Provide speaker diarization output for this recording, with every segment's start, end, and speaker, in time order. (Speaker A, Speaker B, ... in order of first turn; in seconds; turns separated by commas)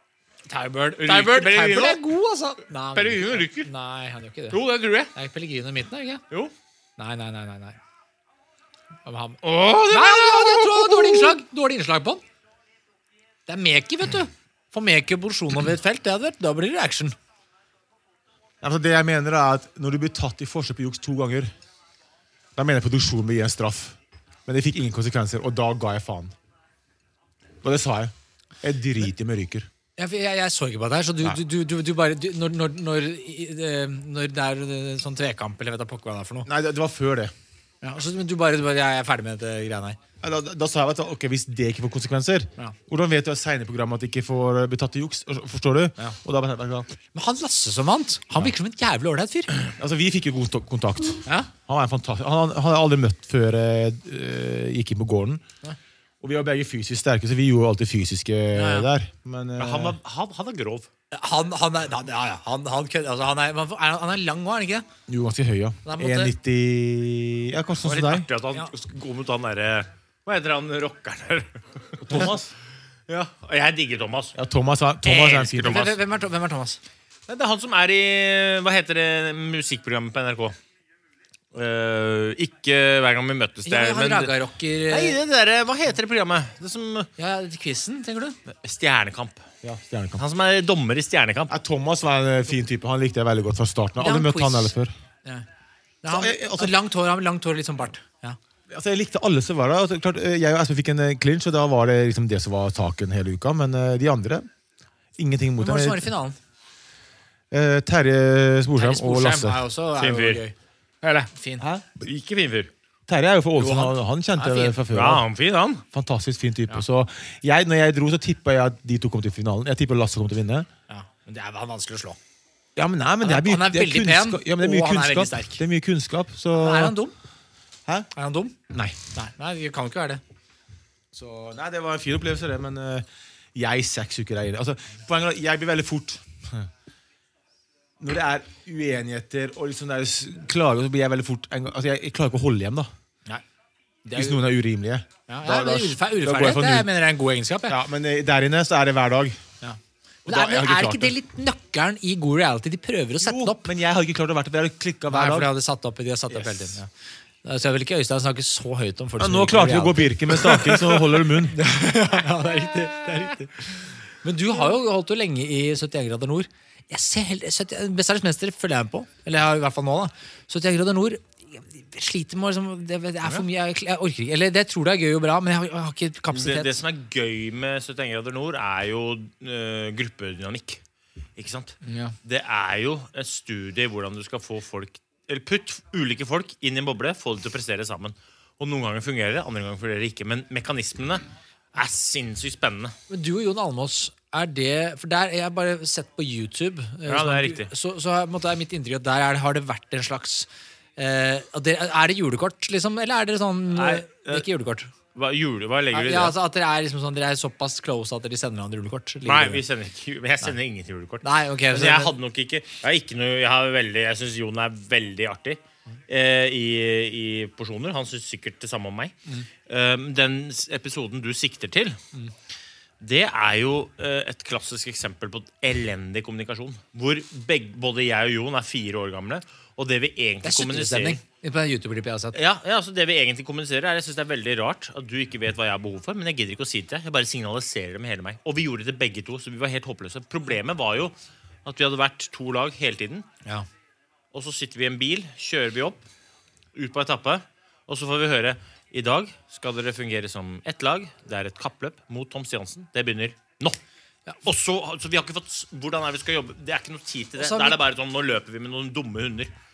Speaker A: 0.5-4.6, Speaker B: 1.0-2.0, Speaker B: 2.9-3.7, Speaker B: 4.5-5.1, Speaker A: 5.1-6.2, Speaker A: 7.0-7.8, Speaker A: 9.1-12.2, Speaker B: 9.4-11.4, Speaker A: 13.5-17.2, Speaker C: 18.6-21.5, Speaker C: 22.6-26.4, Speaker C: 27.6-29.7, Speaker A: 30.0-36.5, Speaker C: 36.5-37.3, Speaker A: 37.8-40.0, Speaker C: 40.2-46.9, Speaker A: 47.1-49.5, Speaker C: 49.8-55.4, Speaker C: 56.2-60.0, Speaker A: 58.5-58.9, Speaker B: 59.6-60.9, Speaker A: 61.1-64.9, Speaker C: 65.1-68.3, Speaker A: 65.8-66.3, Speaker B: 67.8-72.3, Speaker C: 72.0-72.5, Speaker B: 73.1-74.4, Speaker C: 74.3-75.8, Speaker B: 75.1-76.0, Speaker A: 75.5-76.8, Speaker B: 77.3-80.6, Speaker B: 81.5-84.3, Speaker A: 83.7-85.2, Speaker B: 84.9-87.1, Speaker A: 87.2-88.4, Speaker B: 88.5-89.4, Speaker C: 89.6-90.2, Speaker B: 90.2-91.6, Speaker C: 91.5-94.9, Speaker A: 94.0-94.7, Speaker A: 96.0-98.4, Speaker C: 96.1-96.8, Speaker C: 98.7-104.5, Speaker C: 105.2-106.1, Speaker A: 105.6-106.4, Speaker C: 107.5-109.6, Speaker A: 108.8-110.5, Speaker B: 110.0-110.4, Speaker A: 111.1-111.7, Speaker C: 111.6-111.9, Speaker B: 112.0-112.7, Speaker C: 113.1-115.3, Speaker A: 113.6-114.8, Speaker B: 114.9-115.8, Speaker C: 115.9-120.7, Speaker A: 120.9-122.2, Speaker C: 122.8-127.0, Speaker A: 123.2-125.6, Speaker A: 126.5-127.2, Speaker A: 128.2-130.2, Speaker C: 131.1-136.7, Speaker C: 138.0-142.9, Speaker A: 144.1-144.4, Speaker C: 144.1-146.9, Speaker A: 145.3-147.8, Speaker C: 147.7-149.4, Speaker A: 149.6-153.7, Speaker C: 150.3-151.2, Speaker C: 153.2-155.5, Speaker A: 155.1-156.9, Speaker C: 156.3-156.8, Speaker A: 157.4-176.8, Speaker C: 159.2-161.6, Speaker B: 176.3-180.8, Speaker B: 181.4-192.9, Speaker A: 181.8-182.2, Speaker A: 193.1-204.9, Speaker B: 197.1-197.7, Speaker B: 203.7-204.5, Speaker B: 205.2-206.4, Speaker A: 205.9-209.6, Speaker B: 209.2-219.2, Speaker A: 211.2-212.2, Speaker B: 219.7-222.0, Speaker B: 223.0-231.2, Speaker A: 230.4-232.4, Speaker B: 232.3-243.3, Speaker B: 244.3-246.0, Speaker B: 246.8-253.8, Speaker B: 254.4-259.5, Speaker A: 257.4-257.8